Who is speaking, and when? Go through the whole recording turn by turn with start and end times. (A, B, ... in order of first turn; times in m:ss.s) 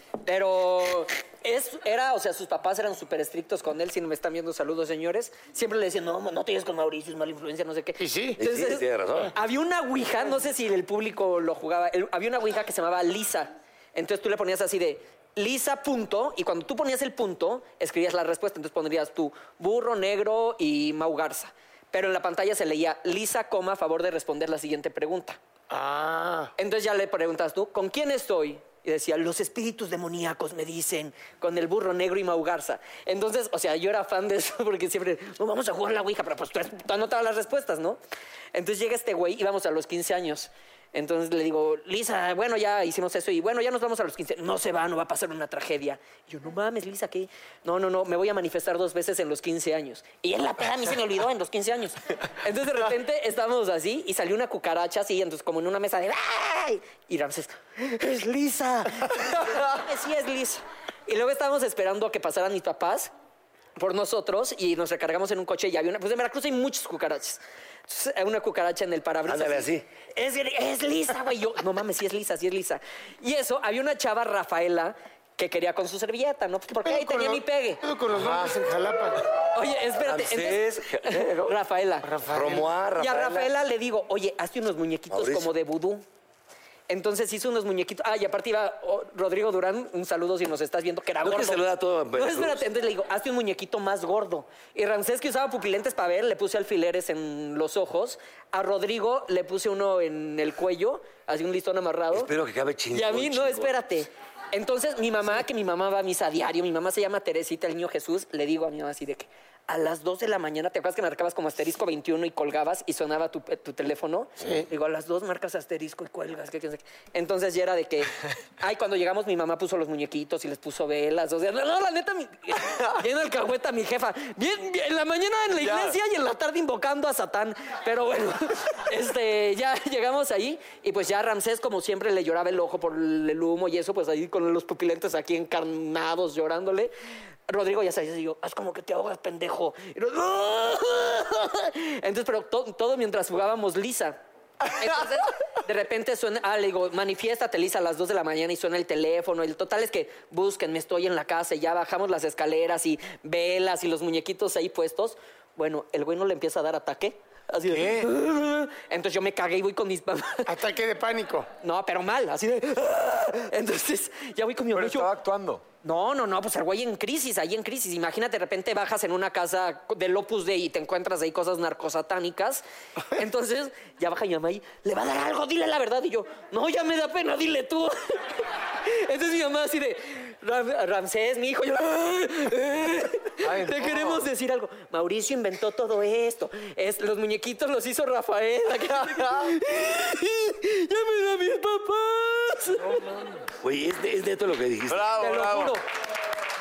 0:00.2-0:25.4 A
0:08.0-0:08.4 B
0:08.4-0:09.3 C
0:25.7-0:26.5 B
0:26.6-0:38.0 A
0:38.5-1:03.1 A
1:03.8-1:17.8 A
1:09.3-1:09.8 C
1:16.7-1:19.2 B
1:18.2-1:18.6 D
1:19.5-1:22.1 A
1:20.0-1:21.6 C
1:22.0-1:22.7 B
1:22.3-1:23.5 C
1:23.0-1:26.0 A
1:25.1-1:25.5 C
1:26.9-1:42.3 A
1:31.2-1:32.6 C
1:42.1-1:43.8 C
1:42.9-2:16.9 A
1:54.4-1:54.6 B
2:05.5-2:06.0 D
2:17.5-2:40.6 A
2:37.7-2:38.1 D
2:40.4-2:41.5 B
2:41.6-2:45.1 A
2:44.7-2:45.6 D
2:45.8-3:13.1 A
3:03.4-3:04.3 D
3:08.9-3:09.5 D
3:12.9-3:13.4 D
3:13.6-3:15.1 C
3:14.9-3:15.8 D
3:15.2-3:15.8 A